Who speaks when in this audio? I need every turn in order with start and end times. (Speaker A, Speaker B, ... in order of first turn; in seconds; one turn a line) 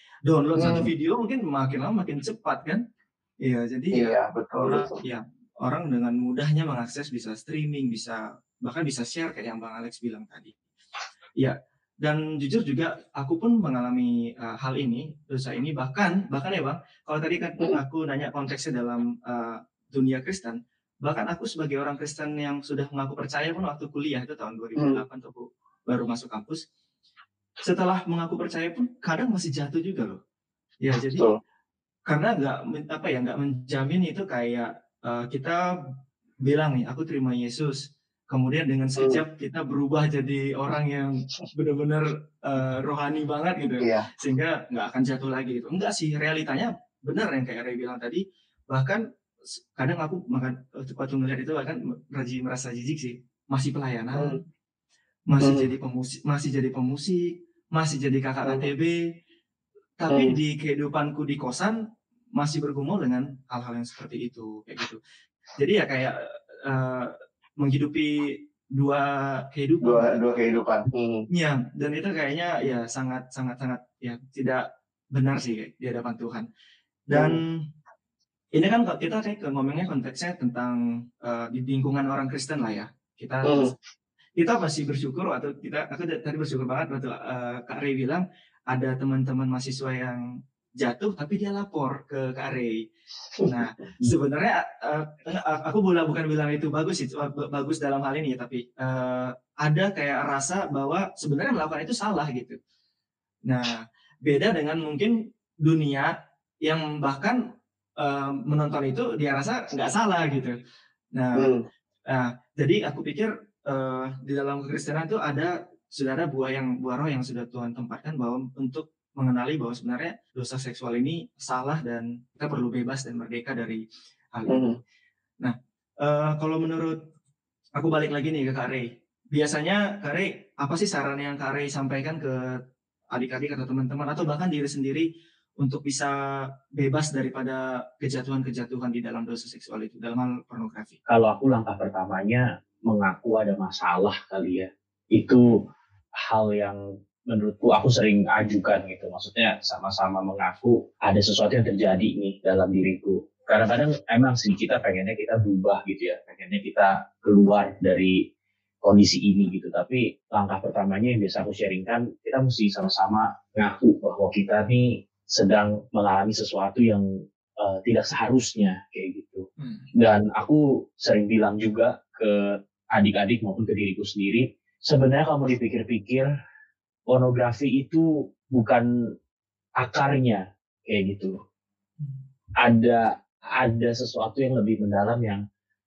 Speaker A: 0.2-2.8
Speaker B: 0.6-0.9
Speaker A: 3.4-10.5
Speaker B: 3.9-5.0
Speaker A: 11.4-26.6
Speaker A: 27.6-30.2
Speaker A: 30.8-31.3
Speaker A: 32.1-35.6
Speaker A: 36.4-49.0
Speaker B: 43.8-44.1
Speaker A: 49.8-54.4
Speaker A: 55.3-59.0
Speaker B: 55.4-55.7
Speaker A: 60.0-61.8
Speaker B: 60.1-60.4
Speaker A: 62.4-65.0
Speaker A: 65.6-70.2
Speaker B: 69.8-71.2
Speaker A: 71.3-76.5
Speaker A: 77.1-77.6
Speaker B: 77.1-77.4
Speaker A: 78.5-83.7
Speaker B: 83.4-83.7
Speaker A: 84.4-90.2
Speaker A: 90.8-92.8
Speaker A: 93.4-102.6
Speaker A: 103.5-103.7
Speaker A: 104.2-106.1
Speaker A: 106.6-107.4
Speaker A: 108.0-110.6
Speaker A: 111.1-111.5
Speaker B: 111.3-111.6
Speaker A: 112.1-123.8
Speaker A: 124.3-124.7
Speaker B: 124.5-124.8
Speaker A: 125.4-127.0
Speaker A: 127.7-132.6
Speaker A: 133.1-135.1
Speaker A: 135.6-136.1
Speaker A: 136.8-141.0
Speaker C: 141.1-145.4
Speaker C: 146.2-158.2
Speaker C: 158.8-167.1
Speaker C: 167.6-169.4
Speaker A: 169.6-169.9
Speaker C: 170.0-176.3
Speaker C: 177.1-178.8
Speaker C: 179.8-181.3
Speaker C: 182.6-183.1
Speaker C: 183.6-185.4